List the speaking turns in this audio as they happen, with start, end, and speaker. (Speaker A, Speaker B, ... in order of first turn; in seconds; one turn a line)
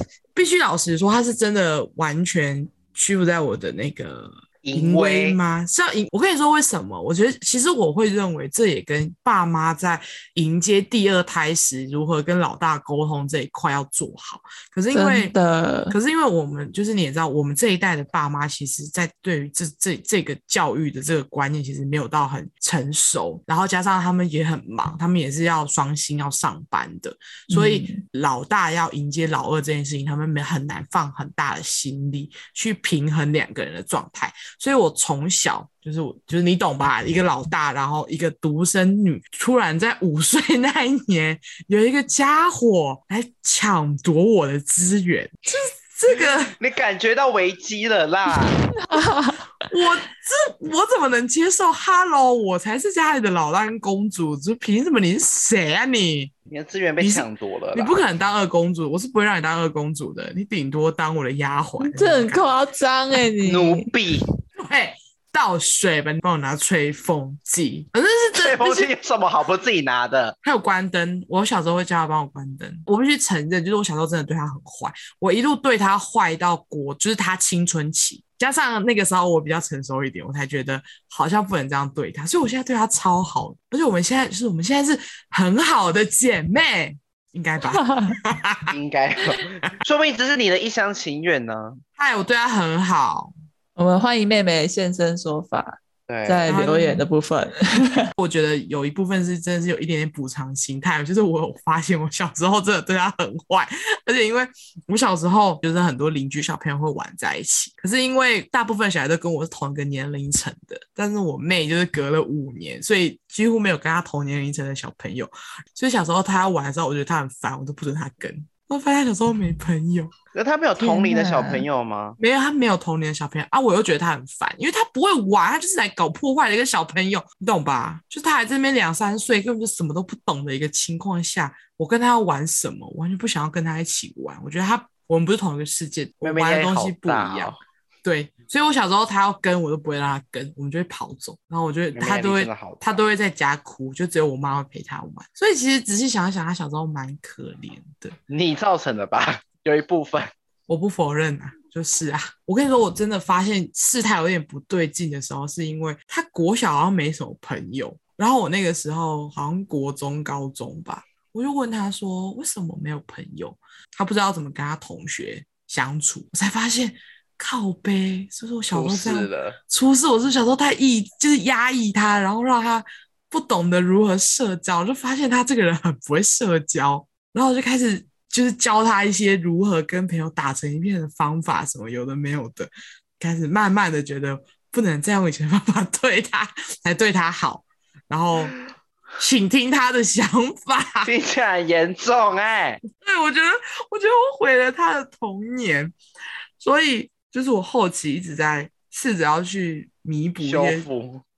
Speaker A: 0.3-15.3
Speaker B: 4.6-5.4
Speaker C: 14.9-16.0
Speaker A: 15.9-46.6
Speaker C: 27.5-28.0
Speaker B: 46.6-48.6
Speaker C: 48.3-49.7
Speaker A: 49.7-56.3
Speaker B: 56.5-58.0
Speaker A: 57.0-62.5
Speaker C: 61.8-63.9
Speaker B: 63.4-64.2
Speaker A: 64.5-68.9
Speaker B: 68.3-70.3
Speaker A: 70.4-88.7
Speaker C: 87.7-88.2
Speaker B: 88.7-91.8
Speaker A: 92.0-93.3
Speaker C: 93.8-98.1
Speaker B: 96.1-96.5
Speaker A: 96.5-97.0
Speaker A: 98.2-120.1
Speaker B: 120.3-122.2
Speaker C: 120.8-121.7
Speaker A: 122.2-148.2
Speaker B: 136.2-137.6
Speaker B: 141.9-142.8
Speaker B: 148.3-150.3
Speaker A: 150.7-188.5
Speaker B: 168.7-169.6
Speaker A: 189.2-191.1
Speaker B: 191.0-192.8
Speaker A: 192.9-195.9
Speaker A: 196.6-200.8
Speaker B: 200.4-201.2